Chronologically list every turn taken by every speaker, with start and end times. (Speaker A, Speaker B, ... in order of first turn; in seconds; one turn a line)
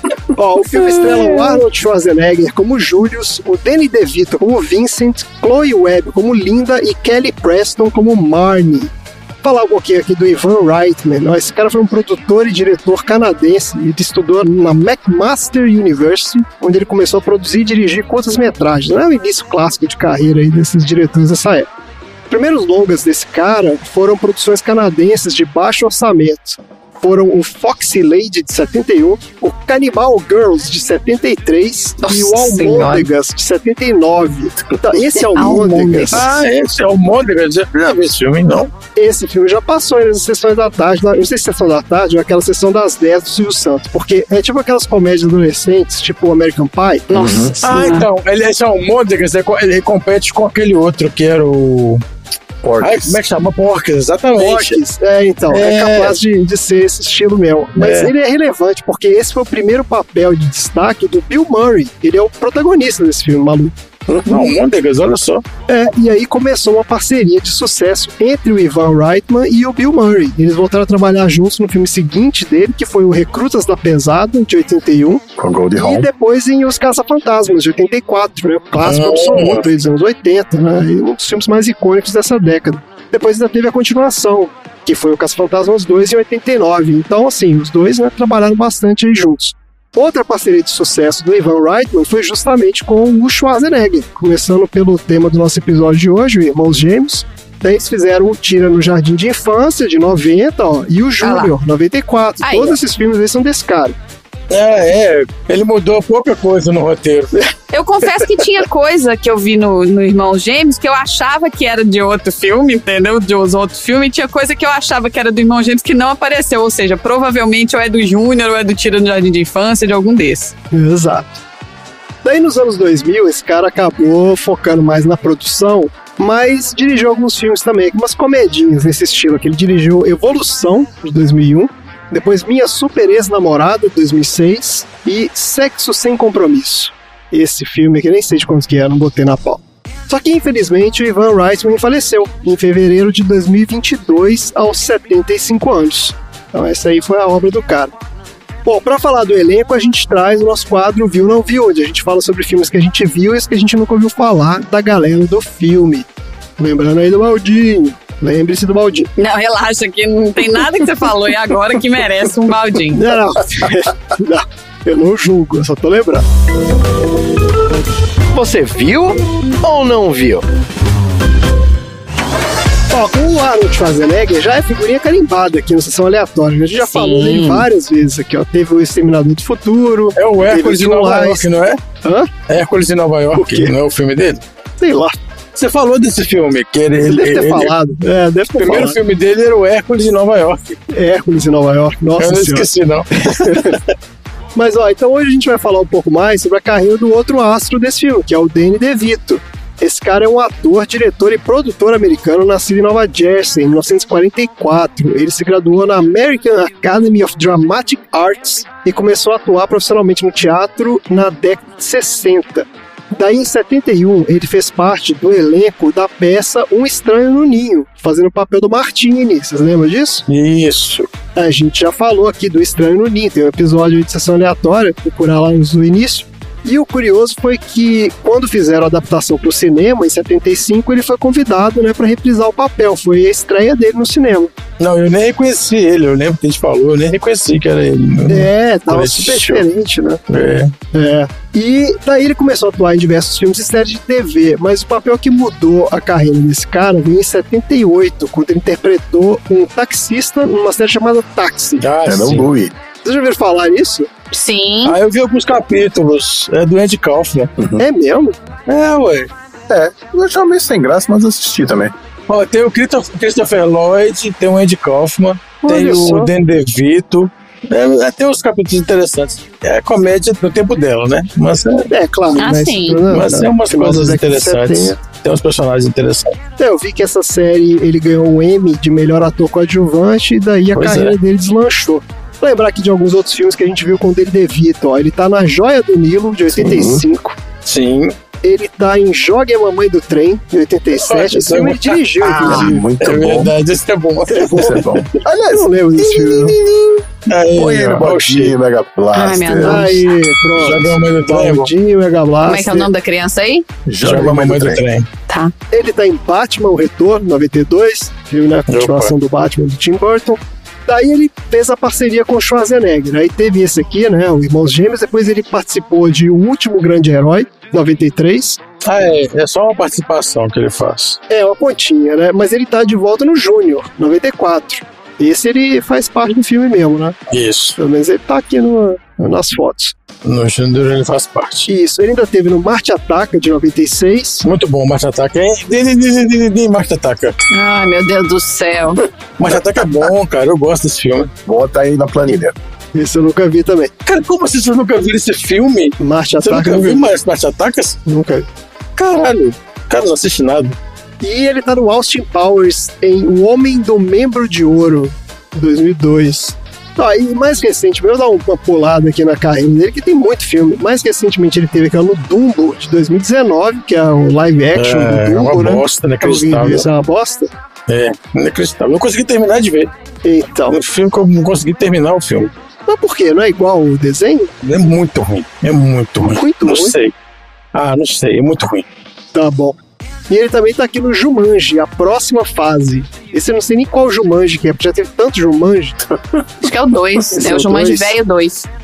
Speaker A: 0.3-8.9
Speaker A: 9.4-21.7
Speaker A: 22.3-36.3
Speaker B: 32.0-33.1
Speaker C: 34.6-35.0
Speaker B: 35.3-36.3
Speaker D: 36.1-38.7
Speaker A: 39.0-47.9
Speaker B: 47.1-48.1
Speaker C: 47.1-47.6
Speaker D: 47.6-52.0
Speaker C: 52.6-53.2
Speaker D: 52.8-54.8
Speaker A: 54.4-63.7
Speaker D: 55.5-56.2
Speaker D: 57.8-58.1
Speaker C: 64.1-64.5
Speaker D: 64.2-65.4
Speaker A: 65.7-104.0
Speaker C: 75.4-76.1
Speaker D: 78.8-79.7
Speaker B: 101.2-101.5
Speaker B: 102.4-102.8
Speaker D: 104.5-107.3
Speaker B: 107.7-120.5
Speaker A: 120.7-121.4
Speaker A: 122.2-147.9
Speaker A: 148.7-156.1
Speaker A: 156.6-159.1
Speaker B: 159.2-163.0
Speaker A: 162.9-166.3
Speaker E: 168.3-170.4
Speaker A: 172.9-181.5
Speaker B: 176.8-177.7
Speaker D: 180.2-181.8
Speaker A: 182.0-182.3
Speaker D: 182.5-184.4
Speaker A: 183.3-183.7
Speaker A: 184.8-185.2
Speaker D: 185.6-187.7
Speaker A: 187.1-189.0
Speaker D: 188.6-190.8
Speaker A: 190.9-192.7
Speaker D: 192.2-193.8
Speaker A: 193.2-193.8
Speaker A: 194.6-220.2
Speaker D: 220.3-221.1
Speaker A: 221.4-234.5
Speaker D: 234.8-239.7
Speaker A: 238.3-240.2
Speaker D: 240.3-240.7
Speaker A: 240.9-251.9
Speaker D: 251.8-252.5
Speaker C: 252.1-252.8
Speaker A: 253.0-254.1
Speaker B: 254.3-255.0
Speaker D: 254.8-257.5
Speaker C: 257.6-257.8
Speaker A: 257.8-258.4
Speaker D: 258.7-259.3
Speaker C: 259.7-261.9
Speaker D: 262.3-271.9
Speaker A: 265.6-266.3
Speaker A: 271.9-275.0
Speaker B: 272.4-273.0
Speaker D: 273.1-276.4
Speaker A: 276.6-287.4
Speaker D: 280.8-281.2
Speaker C: 286.5-287.1
Speaker D: 287.6-288.1
Speaker A: 288.4-292.9
Speaker D: 290.9-295.0
Speaker B: 292.2-292.7
Speaker C: 292.4-293.5
Speaker A: 294.3-294.8
Speaker C: 294.6-299.9
Speaker A: 295.5-296.5
Speaker D: 297.3-298.5
Speaker B: 299.1-300.1
Speaker A: 299.6-302.9
Speaker D: 300.6-301.7
Speaker B: 302.4-303.6
Speaker C: 303.9-304.8
Speaker D: 304.0-305.1
Speaker B: 305.3-305.5
Speaker A: 305.7-318.6
Speaker D: 308.7-309.1
Speaker D: 318.8-321.2
Speaker A: 321.3-327.2
Speaker D: 327.3-327.8
Speaker A: 327.8-329.9
Speaker D: 330.2-331.7
Speaker A: 331.7-334.4
Speaker D: 334.4-337.4
Speaker B: 337.5-339.0
Speaker D: 339.4-341.3
Speaker C: 341.5-342.6
Speaker A: 342.9-343.9
Speaker D: 344.1-348.0
Speaker A: 346.0-347.1
Speaker A: 348.1-348.5
Speaker D: 349.0-350.8
Speaker A: 351.2-367.5
Speaker D: 364.7-366.9
Speaker D: 367.9-369.9
Speaker A: 370.2-370.8
Speaker D: 370.7-372.5
Speaker A: 372.9-374.5
Speaker D: 374.6-377.1
Speaker A: 376.3-377.0
Speaker D: 377.7-378.9
Speaker A: 379.3-379.8
Speaker A: 380.3-386.0
Speaker B: 386.6-388.7
Speaker A: 387.4-388.1